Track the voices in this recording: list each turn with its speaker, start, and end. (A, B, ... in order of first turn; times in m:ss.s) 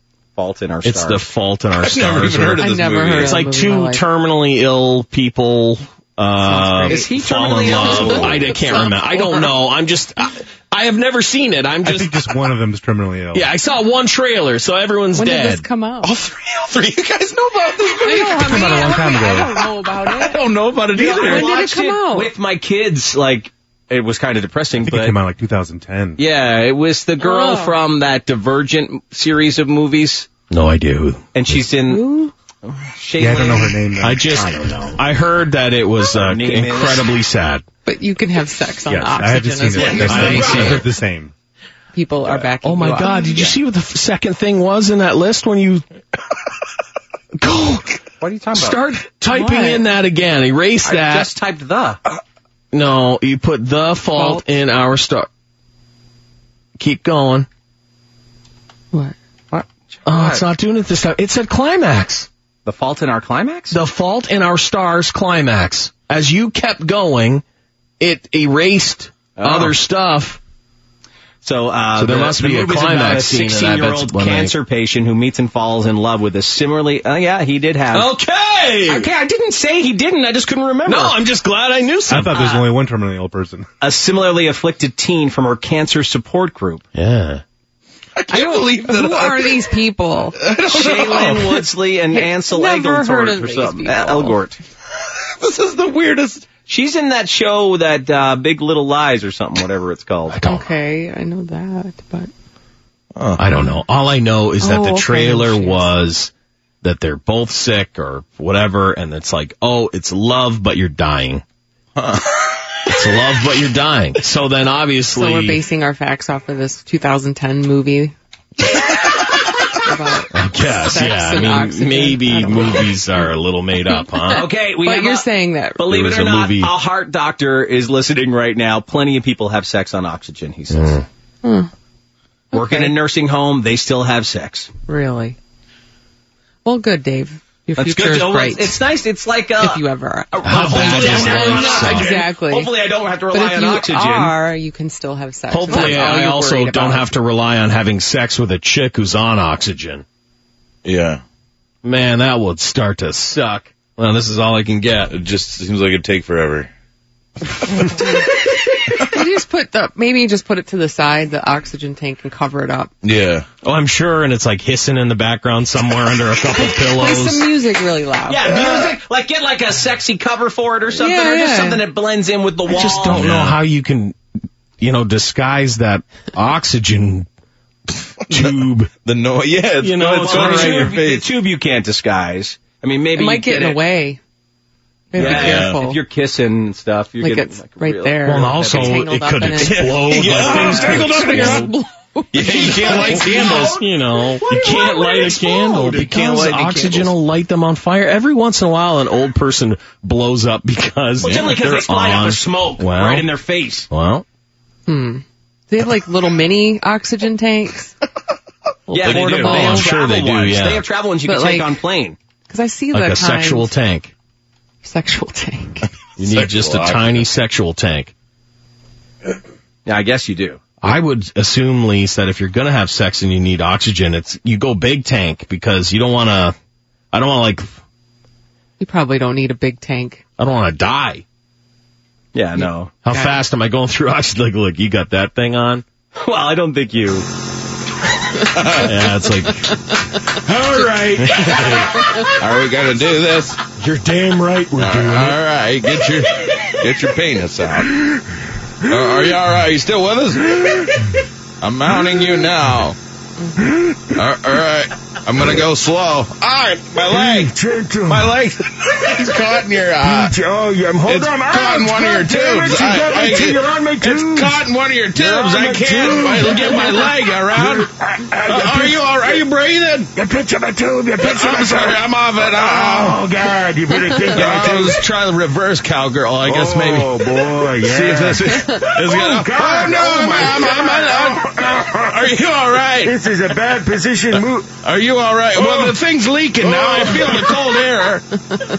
0:00.4-0:01.3 A
0:00.8-0:12.4 B
0:01.8-0:03.4 C
0:02.5-0:04.0 D
0:06.4-0:07.1 D
0:06.9-0:08.6 A
0:07.6-0:09.5 D
0:11.8-0:13.5 E
0:13.3-0:15.6 B
0:15.2-0:16.2 D
0:16.0-0:19.0 C
0:18.0-0:20.4 D
0:18.3-0:19.6 E
0:20.0-0:21.5 C
0:20.9-0:25.2 A
0:21.0-0:22.3 D
0:24.8-0:26.2 E
0:26.2-0:30.3 A
0:27.2-0:27.8 D
0:30.5-0:31.6 B
0:31.3-0:32.1 A
0:31.9-0:32.3 D
0:32.6-0:35.0 A
0:33.2-0:34.5 E
0:34.0-0:37.6 B
0:36.1-0:37.1 A
0:37.8-0:40.8 D
0:38.9-0:41.3 E
0:39.8-0:40.8 A
0:39.8-0:40.9 B
0:41.9-0:43.5 D
0:42.6-0:45.8 B
0:43.3-0:43.6 A
0:47.4-0:48.0 B
0:48.2-0:48.8 A
0:48.5-0:51.3 B
0:49.3-0:49.9 D
0:50.8-0:52.0 A
0:52.7-0:55.3 B
0:54.1-0:54.4 D
0:56.8-0:57.5 B
0:59.5-1:00.5 A
1:00.0-1:02.3 B
1:02.7-1:03.8 A
1:03.7-1:07.4 B
1:08.0-1:10.4 B
1:09.4-1:09.8 A
1:11.4-1:18.1 A
1:12.0-1:14.6 B
1:17.9-1:19.1 B
1:18.9-1:21.2 A
1:20.9-1:22.6 B
1:22.1-1:23.7 E
1:23.8-1:26.8 A
1:27.0-1:27.4 B
1:28.2-1:29.7 C
1:28.3-1:30.4 D
1:30.4-1:31.4 C
1:30.6-1:34.6 A
1:32.1-1:34.4 D
1:35.4-1:36.5 C
1:36.7-1:40.4 A
1:40.3-1:40.7 B
1:40.4-1:42.3 D
1:43.2-1:43.4 C
1:43.4-1:46.3 B
1:44.6-1:45.9 D
1:46.8-1:51.4 B
1:52.0-1:52.4 C
1:52.9-1:55.6 B
1:55.1-1:58.1 D
1:59.7-2:03.3 D
2:00.3-2:04.5 B
2:03.9-2:05.8 D
2:04.3-2:11.0 A
2:05.9-2:06.7 B
2:10.7-2:11.0 B
2:11.4-2:11.7 D
2:12.5-2:13.0 D
2:12.5-2:14.7 A
2:14.9-2:15.4 D
2:16.6-2:18.8 D
2:17.8-2:24.4 A
2:19.6-2:27.1 D
2:20.4-2:22.3 B
2:25.5-2:30.0 B
2:25.7-2:26.1 A
2:30.8-2:31.2 C
2:31.8-2:35.1 B
2:35.1-2:36.7 C
2:39.0-2:42.9 D
2:43.0-2:43.5 C
2:43.6-2:47.5 B
2:46.6-2:48.6 D
2:48.3-2:53.5 A
2:50.9-2:51.9 D
2:52.7-2:54.2 B
2:53.2-2:53.5 C
2:54.8-2:57.3 B
2:58.3-2:58.9 B
2:58.3-3:01.3 C
2:59.8-3:01.0 B
3:00.0-3:03.8 A
3:03.1-3:04.2 D
3:05.1-3:06.0 D
3:05.1-3:05.8 C
3:05.1-3:09.0 A
3:07.2-3:13.2 D
3:08.2-3:11.7 B
3:09.6-3:11.7 C
3:10.6-3:11.0 A
3:12.3-3:13.8 C
3:12.4-3:13.9 A
3:12.5-3:23.3 B
3:14.4-3:17.2 A
3:21.2-3:23.9 A
3:21.2-3:21.6 C
3:23.9-3:24.2 B
3:24.9-3:27.9 D
3:28.9-3:29.9 D
3:28.9-3:32.2 A
3:29.0-3:29.6 C
3:29.2-3:30.8 B
3:31.2-3:31.8 D
3:32.5-3:33.7 D
3:32.9-3:34.1 B
3:34.8-3:35.8 D
3:36.2-3:37.3 C
3:36.2-3:38.1 B
3:39.9-3:40.6 A
3:40.8-3:46.6 B
3:47.1-3:47.7 B
3:48.8-3:50.2 D
3:50.4-3:51.2 B
3:52.4-3:52.9 A
3:53.0-3:55.8 B
3:53.1-3:53.4 D
3:56.2-3:57.3 A
3:58.5-3:58.9 C
3:58.7-3:59.8 B
4:00.6-4:03.6 C
4:00.9-4:01.4 F
4:01.2-4:01.7 B
4:03.8-4:05.4 B
4:04.8-4:08.0 C
4:08.9-4:11.0 C
4:11.6-4:13.0 C
4:14.2-4:20.4 C
4:17.0-4:18.4 F
4:20.0-4:29.4 F
4:21.0-4:27.9 C
4:28.4-4:30.1 C
4:30.2-4:35.0 F
4:31.2-4:33.3 C
4:34.2-4:43.2 C
4:36.4-4:42.4 F
4:38.5-4:38.9 D
4:43.0-4:44.7 F
4:44.3-4:48.3 C
4:45.6-4:46.0 F
4:46.6-4:47.6 F